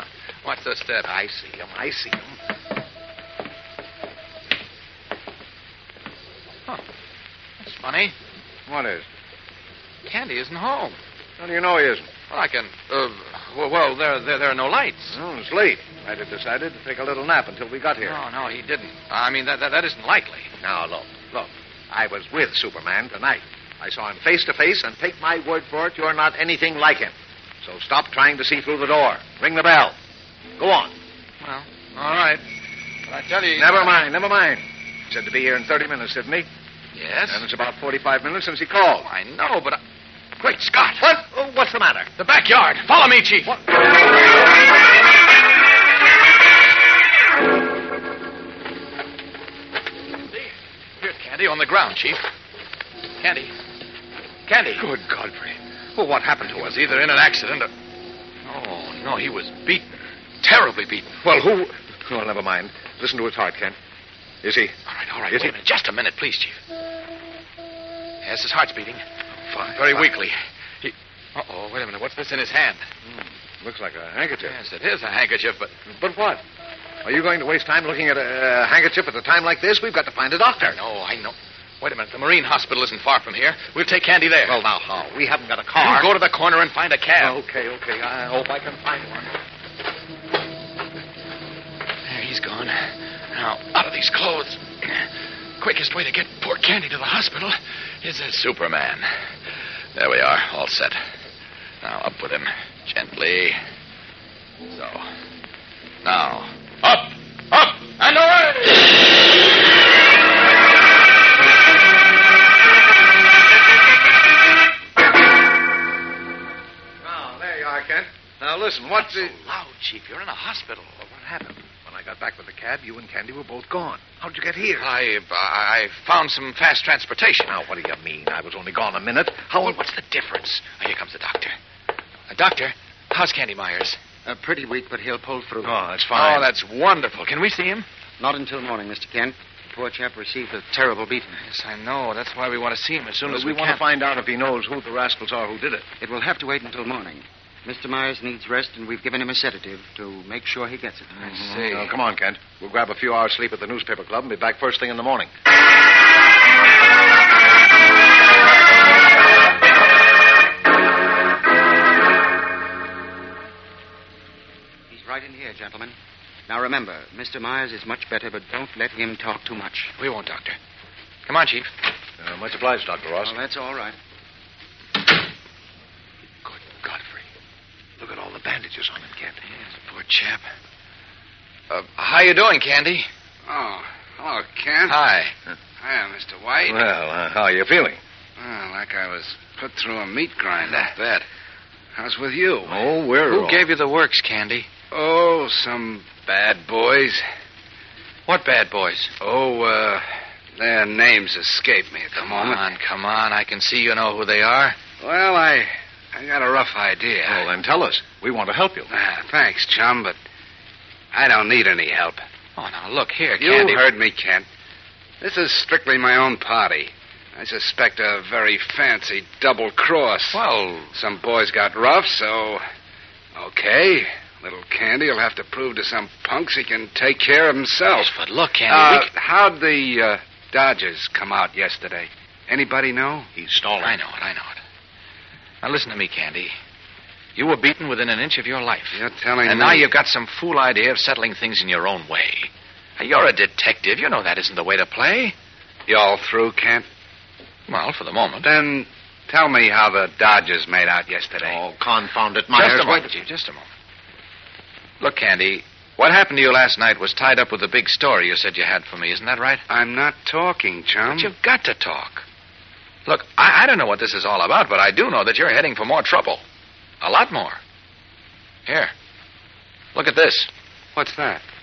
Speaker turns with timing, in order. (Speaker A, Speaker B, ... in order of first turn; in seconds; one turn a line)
Speaker A: 0.4-1.1
Speaker B: 1.1-2.3
Speaker A: 7.6-8.1
Speaker B: 8.7-9.1
Speaker A: 10.0-11.0
Speaker B: 11.4-12.1
Speaker A: 12.3-15.2
Speaker B: 15.1-18.2
Speaker A: 18.0-20.5
Speaker B: 20.6-29.9
Speaker B: 30.6-30.9
Speaker A: 31.4-32.4
Speaker A: 33.0-33.9
Speaker B: 33.6-36.5
Speaker A: 36.9-37.5
Speaker B: 37.3-39.1
Speaker A: 39.0-39.8
Speaker A: 40.4-41.0
Speaker B: 41.0-42.1
Speaker A: 42.2-43.6
Speaker A: 51.0-52.2
Speaker A: 53.2-53.5
Speaker A: 54.5-54.9
Speaker B: 54.8-57.0
Speaker A: 56.5-57.7
Speaker A: 58.4-61.1
Speaker B: 61.2-63.8
Speaker B: 64.4-64.7
Speaker A: 64.9-66.6
Speaker A: 68.2-69.0
Speaker B: 69.5-70.1
Speaker A: 69.7-72.8
Speaker B: 73.1-74.6
Speaker A: 74.4-75.8
Speaker B: 75.9-76.4
Speaker B: 77.0-80.8
Speaker A: 80.7-84.6
Speaker B: 84.5-86.1
Speaker A: 85.8-87.4
Speaker B: 87.2-89.3
Speaker A: 92.0-92.8
Speaker A: 93.3-95.0
Speaker A: 95.6-99.0
Speaker A: 99.9-101.0
Speaker A: 101.8-103.5
Speaker A: 104.7-105.0
Speaker A: 106.0-108.8
Speaker B: 117.0-119.3
Speaker A: 119.0-120.9
Speaker B: 121.0-124.9
Speaker A: 124.8-127.5
Speaker B: 127.5-129.8
Speaker A: 129.6-131.6
Speaker A: 132.3-134.0
Speaker C: 134.2-135.8
Speaker B: 135.6-136.5
Speaker A: 136.1-137.8
Speaker C: 138.2-141.4
Speaker A: 141.4-143.8
Speaker B: 143.3-145.8
Speaker C: 146.0-151.3
Speaker B: 151.2-155.3
Speaker A: 151.5-151.9
Speaker D: 151.6-151.8
Speaker C: 164.9-165.9
Speaker C: 166.5-169.9
Speaker A: 170.0-170.6
Speaker A: 171.2-171.7
Speaker B: 172.2-173.4
Speaker C: 173.2-173.9
Speaker B: 176.4-177.2
Speaker B: 178.0-179.4
Speaker A: 179.4-180.4
Speaker A: 181.7-183.1
Speaker D: 183.5-185.0
Speaker A: 184.8-185.3
Speaker D: 185.8-186.8
Speaker B: 186.7-188.0
Speaker D: 188.4-191.2
Speaker A: 190.7-191.2
Speaker D: 191.9-192.8
Speaker B: 192.7-193.7
Speaker A: 193.3-194.7
Speaker D: 194.9-197.2
Speaker A: 198.3-199.1
Speaker D: 199.2-200.0
Speaker D: 200.6-202.7
Speaker A: 202.1-204.9
Speaker D: 205.0-207.4
Speaker B: 207.3-208.9
Speaker D: 208.9-210.2
Speaker D: 211.1-212.2
Speaker A: 212.6-213.9
Speaker D: 213.4-214.5
Speaker D: 215.2-220.4
Speaker A: 220.3-220.9
Speaker D: 220.9-222.6
Speaker D: 223.3-228.1
Speaker A: 227.8-229.1
Speaker D: 228.7-233.3
Speaker B: 233.3-233.9
Speaker A: 233.8-234.6
Speaker A: 235.6-236.5
Speaker A: 237.3-245.3
Speaker D: 238.9-239.9
Speaker D: 245.9-246.8
Speaker A: 247.7-248.5
Speaker D: 248.4-251.6
Speaker B: 251.4-252.8
Speaker A: 252.5-253.7
Speaker D: 252.6-253.1
Speaker A: 255.0-259.6
Speaker D: 259.7-261.3
Speaker A: 261.0-262.2
Speaker A: 263.1-266.4
Speaker A: 267.0-267.6
Speaker A: 268.7-268.9
Speaker A: 269.9-270.5
Speaker D: 270.9-271.4